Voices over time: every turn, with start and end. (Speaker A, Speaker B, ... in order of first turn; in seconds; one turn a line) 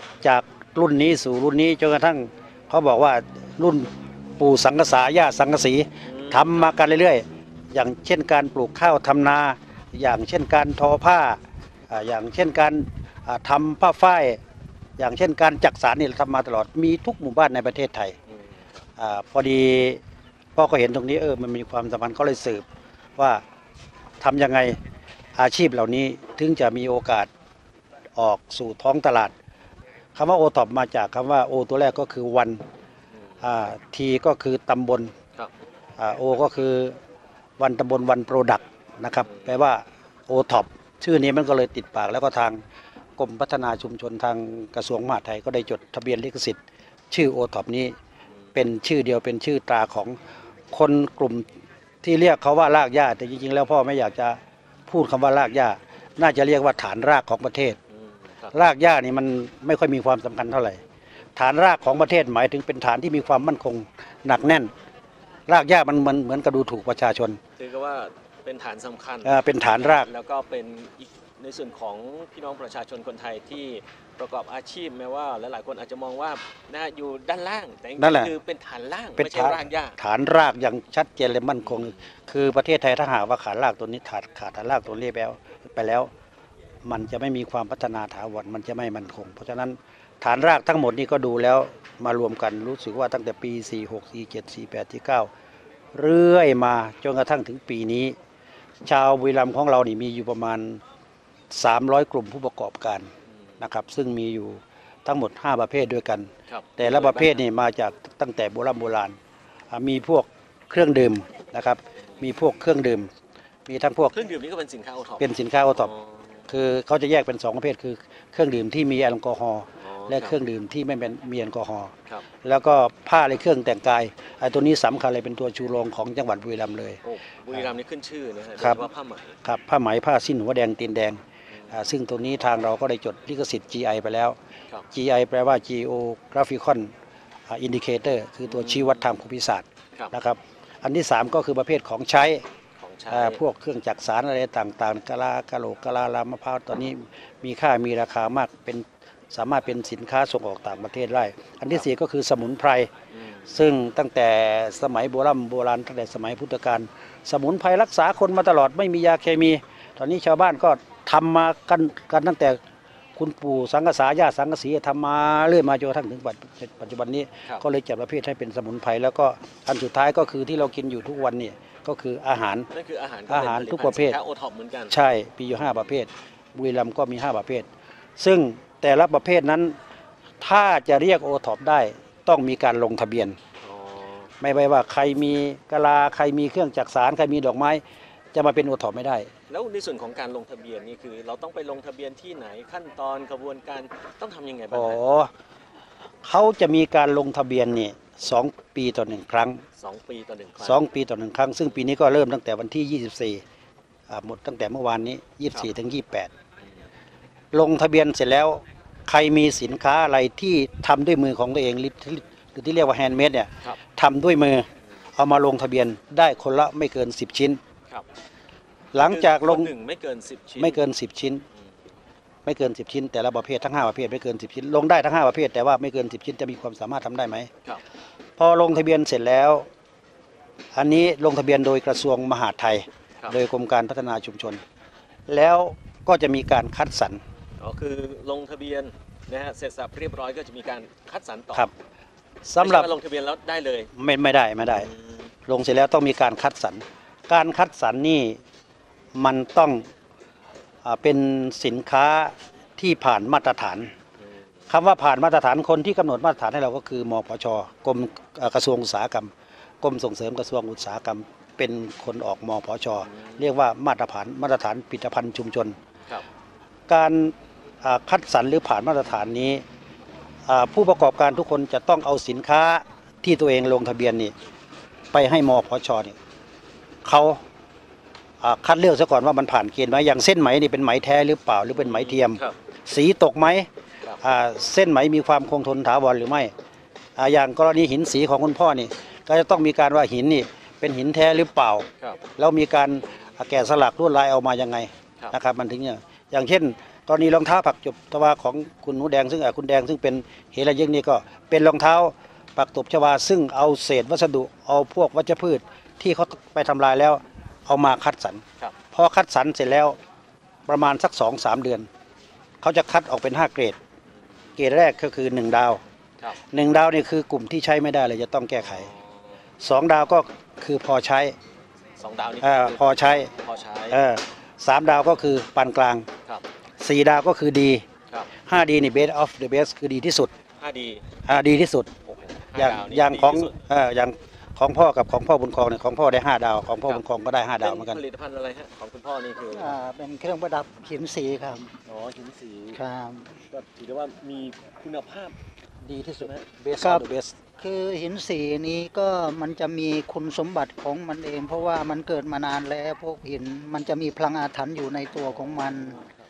Speaker A: 0.2-14.4
Speaker B: 6.0-6.7
Speaker A: 15.0-18.1
Speaker A: 19.0-20.0
Speaker A: 20.6-22.6
Speaker A: 23.2-23.4
Speaker A: 24.2-24.8
Speaker A: 25.4-27.3
Speaker A: 28.1-29.3
Speaker A: 30.1-32.6
Speaker A: 33.4-35.1
Speaker A: 36.0-37.0
Speaker A: 37.6-42.6
Speaker B: 39.3-39.6
Speaker A: 43.2-46.6
Speaker A: 47.1-48.0
Speaker A: 48.5-50.2
Speaker A: 50.7-51.5
Speaker A: 52.0-57.8
Speaker B: 58.2-58.5
Speaker A: 58.5-60.8
Speaker A: 61.4-64.7
Speaker A: 65.5-67.4
Speaker B: 67.6-80.0
Speaker A: 69.2-70.1
Speaker A: 78.0-78.3
Speaker A: 79.2-86.1
Speaker B: 81.6-82.0
Speaker A: 86.8-95.3
Speaker A: 95.9-98.2
Speaker A: 98.8-100.8
Speaker A: 101.5-109.2
Speaker B: 106.5-107.4
Speaker A: 109.7-113.1
Speaker A: 113.7-114.3
Speaker B: 114.1-116.2
Speaker A: 115.2-115.9
Speaker A: 116.5-121.9
Speaker B: 119.8-120.3
Speaker A: 122.4-127.0
Speaker B: 127.0-129.3
Speaker A: 128.6-128.8
Speaker A: 129.4-134.4
Speaker B: 131.5-131.8
Speaker A: 134.9-136.9
Speaker A: 137.5-142.4
Speaker B: 138.5-139.0
Speaker B: 142.8-143.4
Speaker A: 143.1-152.9
Speaker B: 153.1-153.5
Speaker A: 153.5-162.6
Speaker A: 163.2-172.7
Speaker B: 172.7-174.9
Speaker A: 173.3-174.2
Speaker A: 174.9-179.8
Speaker A: 180.4-183.4
Speaker B: 183.6-184.3
Speaker A: 184.4-187.8
Speaker A: 188.3-189.3
Speaker B: 189.5-195.0
Speaker A: 194.7-195.3
Speaker A: 196.2-199.6
Speaker B: 199.8-200.8
Speaker A: 200.6-203.4
Speaker A: 204.1-206.3
Speaker A: 207.5-217.6
Speaker A: 218.9-219.7
Speaker B: 218.9-220.8
Speaker A: 220.6-221.4
Speaker A: 222.4-227.5
Speaker A: 228.4-229.7
Speaker A: 230.7-234.6
Speaker A: 235.3-237.2
Speaker B: 237.6-241.7
Speaker A: 242.4-242.9
Speaker B: 242.6-243.9
Speaker A: 243.9-244.9
Speaker B: 244.7-245.3
Speaker A: 245.5-248.4
Speaker A: 249.1-249.9
Speaker A: 250.8-253.9
Speaker A: 254.7-265.8
Speaker B: 263.1-263.4
Speaker A: 266.9-269.6
Speaker A: 270.5-274.3
Speaker A: 275.1-276.2
Speaker A: 277.0-277.4
Speaker A: 278.4-283.7
Speaker B: 281.7-282.5
Speaker A: 284.2-286.5
Speaker A: 287.2-310.0
Speaker A: 310.7-311.9
Speaker A: 312.6-313.8
Speaker A: 314.6-315.8
Speaker A: 316.5-318.9
Speaker B: 318.6-319.0
Speaker A: 319.6-321.4
Speaker B: 322.0-324.0
Speaker A: 322.4-323.3
Speaker A: 323.9-326.1
Speaker A: 326.8-327.8
Speaker A: 328.4-330.3
Speaker B: 330.6-331.0
Speaker A: 331.2-331.9
Speaker B: 332.1-333.5
Speaker A: 332.5-338.0
Speaker B: 337.6-339.8
Speaker C: 339.5-341.7
Speaker B: 341.9-342.8
Speaker C: 342.7-343.3
Speaker B: 343.5-345.3
Speaker A: 345.8-347.3
Speaker B: 346.2-346.5
Speaker C: 346.8-347.1
Speaker C: 347.6-356.0